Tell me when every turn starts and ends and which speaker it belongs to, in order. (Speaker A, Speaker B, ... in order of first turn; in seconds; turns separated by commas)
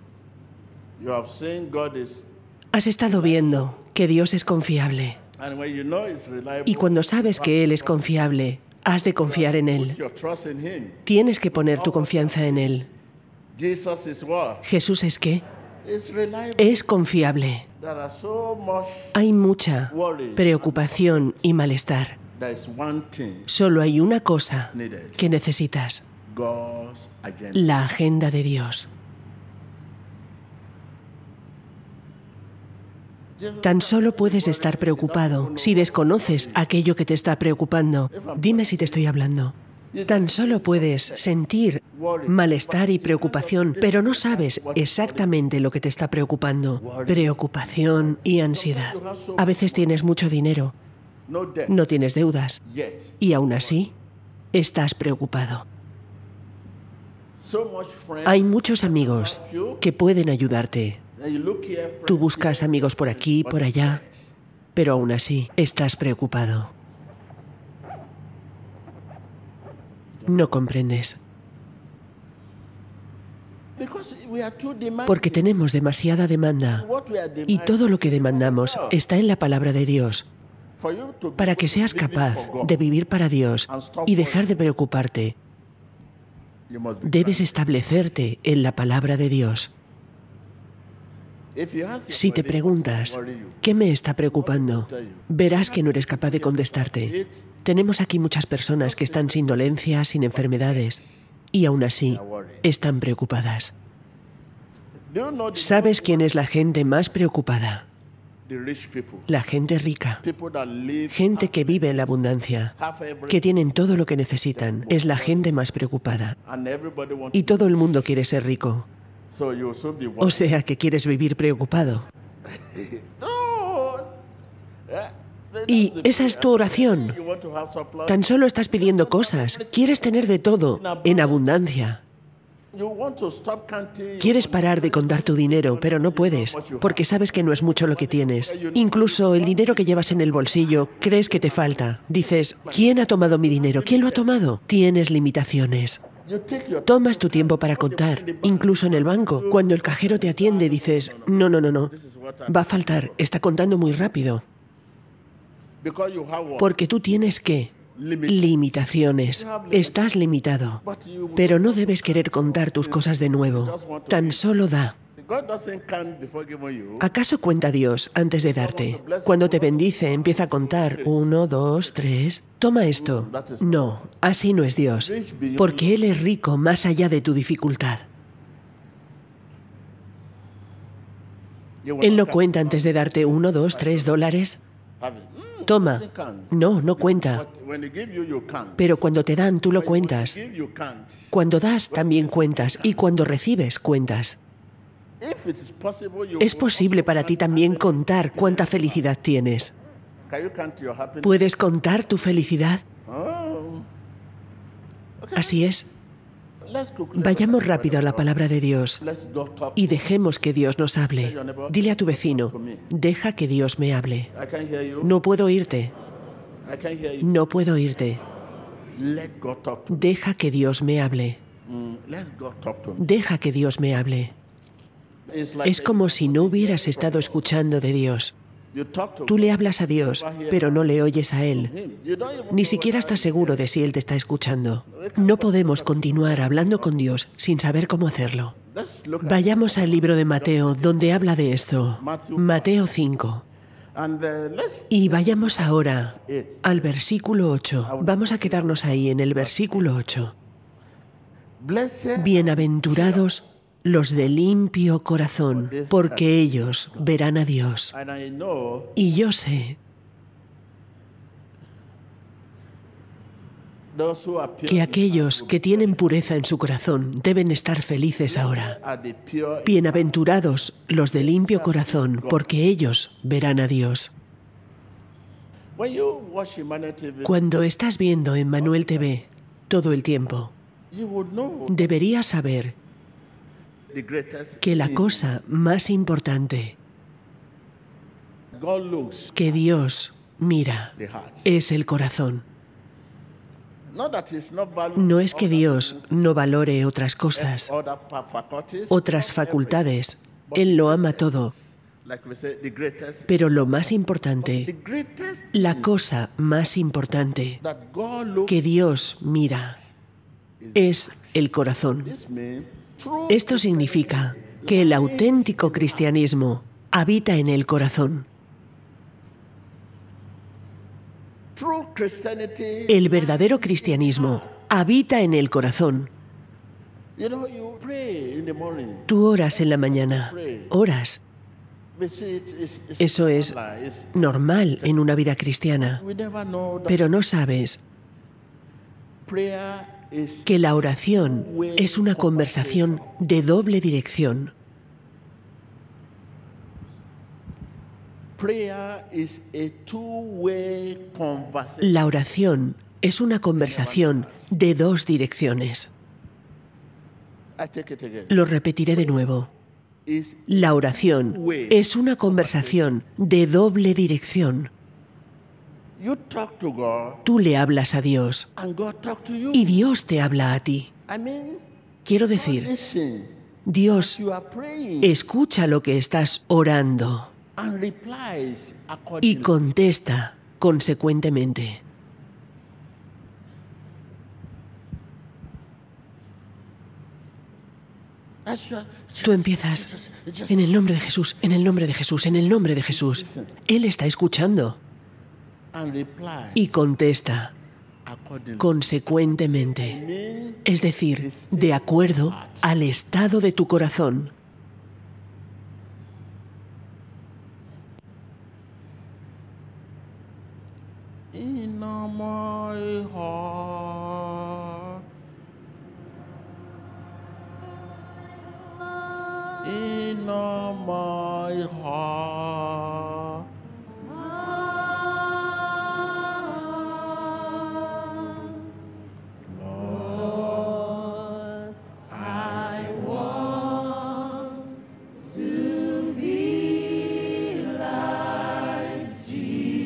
Speaker A: 1.0-2.3, Speaker B: 2.7-5.2, Speaker A: 3.0-3.7, Speaker A: 5.3-8.1, Speaker B: 6.7-10.0, Speaker A: 9.2-12.7, Speaker B: 11.1-12.9, Speaker A: 13.5-14.7, Speaker B: 14.6-15.4, Speaker A: 15.8-16.9, Speaker B: 16.6-17.6, Speaker A: 17.7-19.1, Speaker B: 19.1-22.2, Speaker A: 19.9-21.5, Speaker A: 22.3-23.5, Speaker B: 23.5-26.0, Speaker A: 24.5-25.3, Speaker A: 26.2-27.8, Speaker B: 27.5-28.9, Speaker A: 33.4-36.6, Speaker B: 33.6-39.5, Speaker A: 38.1-39.1, Speaker A: 39.9-41.3, Speaker B: 40.1-50.7, Speaker A: 41.9-45.4, Speaker A: 46.8-50.0, Speaker A: 51.3-52.0, Speaker B: 51.7-52.6, Speaker A: 52.6-53.9, Speaker B: 53.2-53.9, Speaker B: 54.5-55.6, Speaker A: 57.4-59.9, Speaker B: 58.2-61.0, Speaker A: 61.2-64.3, Speaker B: 62.1-64.0, Speaker B: 64.8-66.7, Speaker A: 70.2-70.5, Speaker B: 70.3-71.2, Speaker A: 73.8-75.7, Speaker B: 75.1-76.8, Speaker A: 76.7-79.0, Speaker B: 77.5-80.2, Speaker A: 80.8-82.9, Speaker B: 81.4-85.4, Speaker A: 83.7-84.7, Speaker A: 86.7-88.0, Speaker B: 87.0-89.7, Speaker A: 91.5-93.7, Speaker B: 92.1-101.0, Speaker A: 94.2-97.5, Speaker A: 98.8-101.3, Speaker B: 101.5-103.7, Speaker A: 102.0-102.7, Speaker A: 105.1-106.4, Speaker B: 105.5-107.8, Speaker A: 108.5-109.3, Speaker B: 109.3-110.2, Speaker A: 110.2-112.2, Speaker B: 111.1-112.7, Speaker A: 112.8-113.8, Speaker B: 113.3-116.4, Speaker A: 114.5-115.5, Speaker A: 116.4-117.9, Speaker B: 117.3-118.9, Speaker A: 119.3-120.6, Speaker B: 120.2-122.1, Speaker A: 122.5-124.2, Speaker A: 124.9-131.4, Speaker B: 125.7-127.2, Speaker B: 128.1-132.0, Speaker A: 132.7-144.5, Speaker B: 134.2-146.0, Speaker A: 146.2-153.2, Speaker B: 146.8-151.9, Speaker B: 152.5-154.4, Speaker A: 155.8-156.8, Speaker B: 156.6-157.7, Speaker A: 157.9-160.2, Speaker B: 158.3-160.8, Speaker A: 160.8-164.5, Speaker B: 161.4-164.9, Speaker A: 165.2-167.1, Speaker B: 167.0-178.0, Speaker A: 168.3-171.2, Speaker A: 171.8-172.2, Speaker A: 172.9-174.0, Speaker A: 175.0-176.1, Speaker A: 181.8-184.2, Speaker B: 182.0-184.6, Speaker A: 185.0-189.0, Speaker B: 185.7-187.4, Speaker B: 188.8-190.3, Speaker A: 189.7-191.3, Speaker B: 191.3-194.4, Speaker A: 191.9-193.1, Speaker A: 195.2-199.1, Speaker B: 196.4-199.7, Speaker A: 200.3-201.6, Speaker B: 201.2-202.8, Speaker A: 203.0-203.9, Speaker A: 205.2-205.7, Speaker B: 205.3-205.9, Speaker A: 206.6-208.3, Speaker B: 207.2-209.0, Speaker A: 209.0-210.1, Speaker B: 209.8-214.3, Speaker A: 211.2-212.9, Speaker A: 214.3-215.2, Speaker B: 215.0-215.9, Speaker A: 216.7-217.3, Speaker B: 217.2-218.2, Speaker A: 218.9-220.1, Speaker B: 219.9-221.4, Speaker A: 221.7-223.2, Speaker B: 223.0-224.3, Speaker A: 225.3-227.5, Speaker B: 225.6-228.3, Speaker A: 228.7-230.9, Speaker B: 229.3-231.7, Speaker A: 231.5-233.7, Speaker B: 232.5-238.5, Speaker A: 234.9-237.0, Speaker A: 238.7-241.3, Speaker B: 239.2-243.4, Speaker A: 241.9-242.9, Speaker A: 243.9-246.9, Speaker B: 244.9-250.3, Speaker A: 247.8-250.1, Speaker A: 251.6-253.3, Speaker B: 252.2-257.9, Speaker A: 255.5-257.1, Speaker A: 257.9-259.0, Speaker B: 258.9-259.8, Speaker A: 263.9-266.4, Speaker B: 264.6-268.8, Speaker A: 268.2-270.4, Speaker B: 269.6-274.1, Speaker A: 271.1-272.6, Speaker A: 275.8-277.4, Speaker B: 277.2-280.5, Speaker A: 278.6-279.1, Speaker A: 280.9-282.0, Speaker B: 281.7-282.8, Speaker A: 283.9-285.4, Speaker B: 284.6-286.8, Speaker A: 288.5-289.8, Speaker B: 289.3-290.9, Speaker A: 290.9-291.6, Speaker B: 291.4-292.4, Speaker A: 293.9-296.1, Speaker B: 295.0-297.7, Speaker A: 297.3-305.9, Speaker B: 298.9-301.5, Speaker B: 303.3-304.7, Speaker B: 305.5-307.6, Speaker A: 307.6-308.8, Speaker B: 308.5-309.8, Speaker A: 310.6-316.2, Speaker B: 310.8-312.1, Speaker B: 313.3-318.2, Speaker A: 321.6-324.7, Speaker B: 322.9-326.1, Speaker A: 327.1-330.8, Speaker B: 329.1-331.2, Speaker A: 331.9-334.9, Speaker B: 333.0-333.6, Speaker B: 334.1-336.0, Speaker A: 335.8-337.1, Speaker B: 336.9-337.8, Speaker A: 339.2-343.2, Speaker B: 340.4-344.5, Speaker A: 348.4-352.1, Speaker B: 351.8-355.9, Speaker A: 353.6-354.5, Speaker A: 357.6-359.3, Speaker B: 358.3-359.5, Speaker A: 360.1-362.9, Speaker B: 360.5-364.7, Speaker A: 366.0-367.2, Speaker B: 367.2-368.5, Speaker A: 368.6-369.9, Speaker B: 369.5-370.9, Speaker A: 371.1-371.6, Speaker B: 372.1-372.7, Speaker A: 372.2-373.4, Speaker B: 373.7-374.2, Speaker A: 373.9-375.2, Speaker B: 375.0-377.3, Speaker A: 377.6-379.7, Speaker B: 379.2-381.8, Speaker A: 388.4-393.6, Speaker B: 389.2-389.9, Speaker B: 390.5-394.8, Speaker A: 395.7-396.8, Speaker B: 396.6-397.5, Speaker A: 398.1-402.8, Speaker B: 398.6-400.0, Speaker B: 400.6-404.3, Speaker A: 411.3-415.0, Speaker A: 419.6-423.5, Speaker A: 429.4-430.8, Speaker A: 432.1-434.0, Speaker A: 438.2-439.5